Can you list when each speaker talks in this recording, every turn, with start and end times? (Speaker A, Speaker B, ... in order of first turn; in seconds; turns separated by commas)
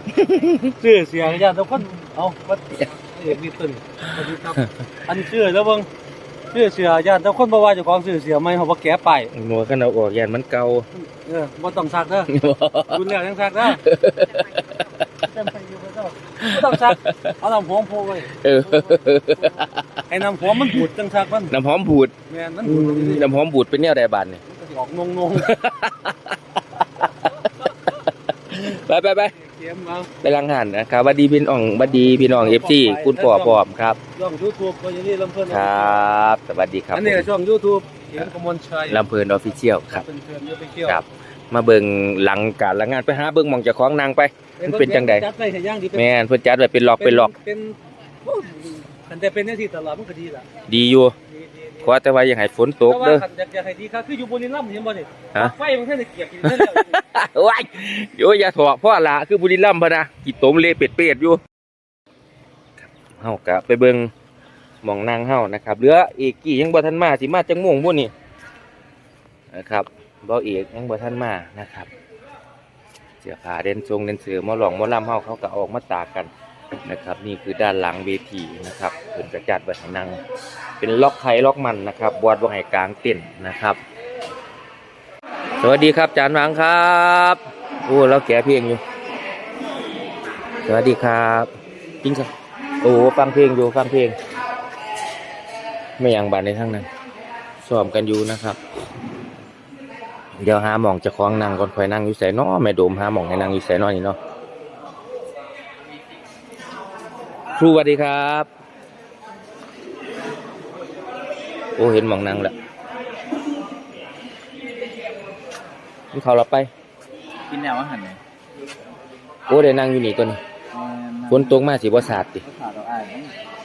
Speaker A: 0.2-0.7, Speaker B: 0.8-5.9, Speaker A: 4.1-4.7, Speaker B: 6.5-9.3, Speaker A: 9.3-10.9, Speaker B: 11.0-12.3, Speaker A: 12.3-13.1, Speaker B: 12.9-13.8, Speaker A: 13.6-15.3, Speaker B: 15.3-18.3, Speaker A: 16.4-17.4, Speaker A: 18.3-20.9, Speaker B: 20.1-21.5, Speaker A: 21.5-22.1, Speaker B: 22.3-23.2, Speaker A: 22.6-24.4, Speaker B: 24.5-25.5, Speaker A: 25.3-29.3, Speaker B: 29.4-30.1, Speaker A: 30.2-34.0, Speaker B: 32.2-33.6, Speaker B: 34.2-36.0, Speaker A: 35.5-37.3, Speaker B: 36.9-39.0, Speaker A: 38.9-40.1, Speaker B: 39.9-41.0, Speaker A: 40.9-45.3, Speaker B: 44.6-46.1, Speaker A: 45.9-47.3, Speaker B: 47.0-50.5, Speaker A: 50.7-51.1, Speaker B: 51.3-51.9, Speaker A: 51.8-53.2, Speaker B: 52.8-57.0, Speaker A: 56.4-61.4, Speaker A: 62.8-64.1, Speaker A: 64.8-68.1, Speaker A: 69.5-71.9, Speaker A: 73.2-76.3, Speaker A: 76.9-80.2, Speaker A: 80.8-83.8, Speaker A: 85.6-88.8, Speaker A: 90.7-91.5, Speaker A: 92.0-92.3, Speaker A: 92.8-94.2, Speaker A: 96.0-96.9, Speaker A: 97.6-98.6, Speaker A: 100.4-104.2, Speaker A: 107.6-108.5, Speaker A: 111.8-112.5, Speaker A: 116.1-116.7, Speaker C: 117.5-118.2, Speaker A: 119.5-120.4, Speaker C: 120.7-121.6, Speaker A: 121.3-122.4, Speaker C: 122.4-123.3